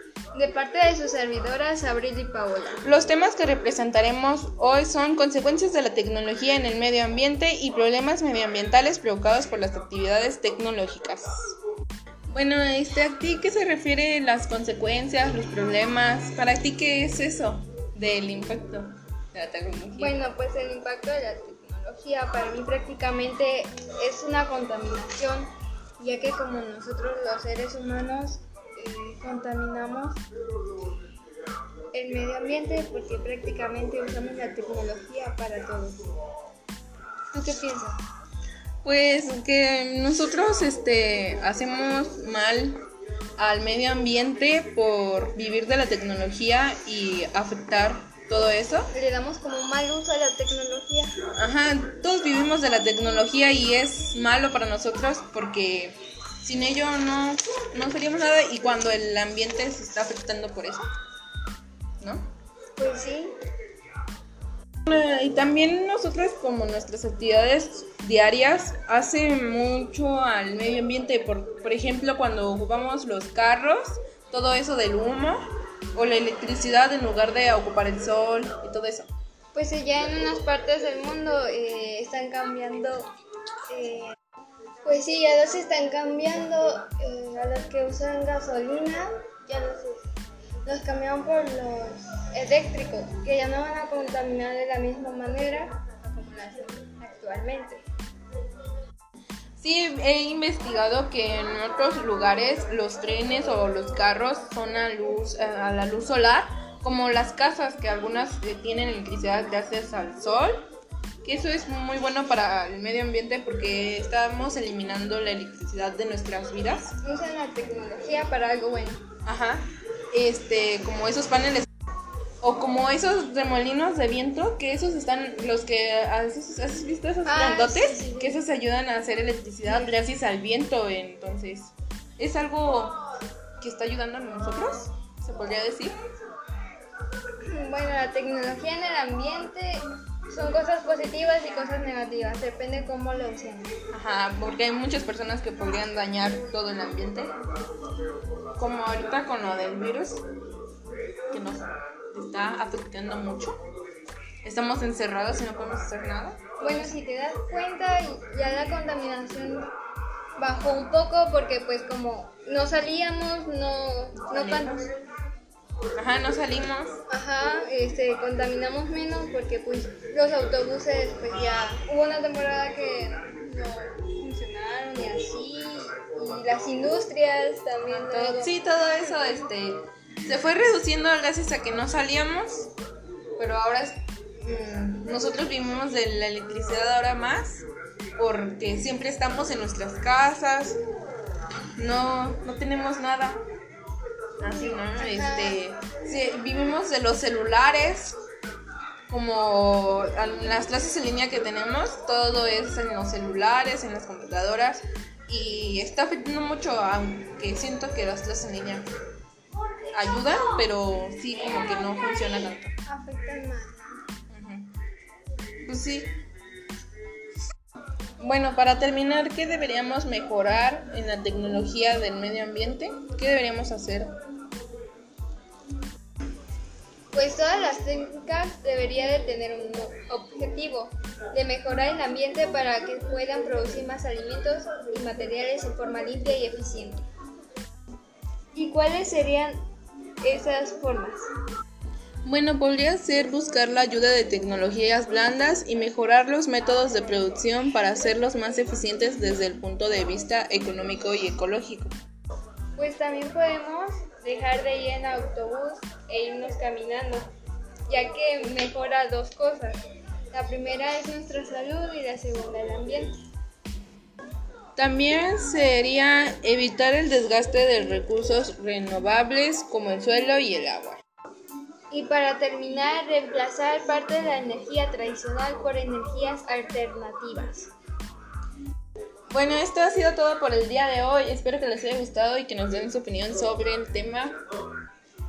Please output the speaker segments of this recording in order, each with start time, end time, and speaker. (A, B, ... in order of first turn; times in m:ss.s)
0:00.3-0:02.8 A
0:02.8-0:11.5 B
0:12.3-0:20.1 B
0:20.0-0:30.2 A
0:31.9-0:36.0 A
0:37.3-0:38.0 A
0:38.8-0:42.8 B
0:43.4-0:48.9 B
0:48.9-0:51.1 A
0:51.4-1:00.8 B
1:02.0-1:02.3 B
1:02.8-1:03.4 A
1:04.8-1:15.4 B
1:15.9-1:19.1 B
1:19.5-1:23.1 A
1:23.7-1:24.1 A
1:24.8-1:30.0 A
1:30.6-1:37.8 A
1:39.6-1:50.6 B
1:51.2-1:57.0 B
1:57.0-1:59.0 A
1:59.2-2:01.7 B
2:02.4-2:13.0 B
2:07.2-2:08.4 A
2:13.6-2:15.9 B
2:17.4-2:23.7 A
2:23.9-2:27.3 B
2:28.6-2:30.2 B
2:31.3-2:33.6 B
2:34.4-2:36.4 B
2:36.6-2:39.7 A
2:40.4-2:44.9 A
2:44.3-2:44.9 B
2:45.9-2:47.0 B
2:47.1-2:58.5 A
2:58.0-3:02.7 B
3:03.4-3:10.8 B
3:11.8-3:13.4 B
3:14.4-3:18.1 B
3:14.5-3:15.6 A
3:19.1-3:28.8 B
3:29.9-3:32.7 B
3:32.9-3:34.0 A
3:34.3-3:34.7 B
3:35.6-3:36.2 B
3:38.2-3:44.1 B
3:47.1-3:57.0 A
3:58.5-3:59.6 A
4:00.2-4:01.3 A
4:02.2-4:11.9 B
4:12.8-4:17.3 A
4:17.9-4:19.8 A
4:20.3-4:23.2 A
4:24.8-4:31.0 B
4:31.9-4:37.7 A
4:39.3-4:44.4 B